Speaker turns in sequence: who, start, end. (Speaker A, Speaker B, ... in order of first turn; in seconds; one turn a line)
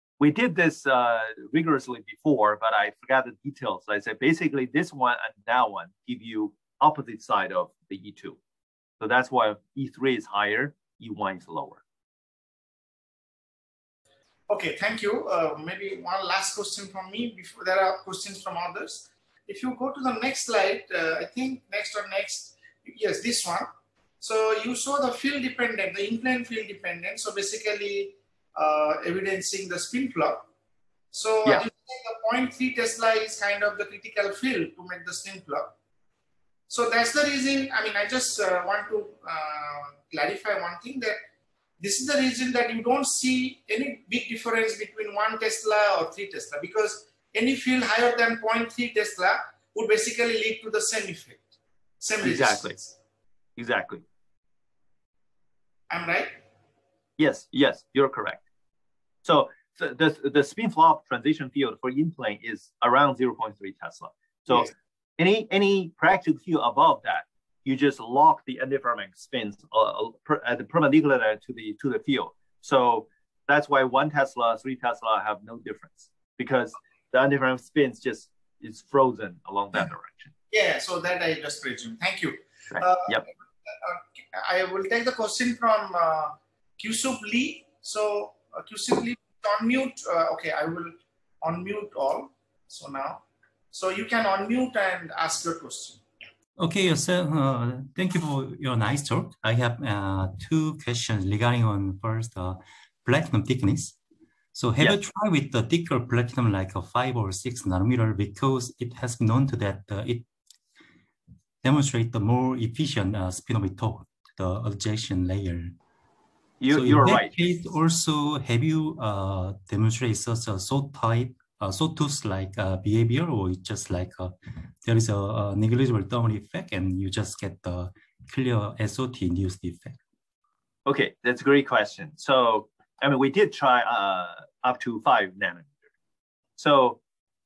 Speaker A: 0.2-8.4
Speaker A: 9.0-11.8
Speaker B: 14.5-23.7
Speaker B: 24.2-30.5
Speaker B: 31.1-35.7
Speaker B: 36.7-41.2
Speaker B: 41.8-53.0
Speaker A: 52.2-52.8
Speaker A: 53.6-54.0
Speaker B: 55.9-56.4
Speaker A: 57.2-58.4
Speaker A: 59.2-80.3
Speaker B: 80.5-96.0
Speaker A: 82.7-83.2
Speaker C: 96.6-104.0
Speaker C: 104.5-110.3
Speaker C: 111.6-115.8
Speaker A: 116.6-117.3
Speaker C: 116.7-130.0
Speaker A: 130.8-135.8
Speaker A: 136.6-137.0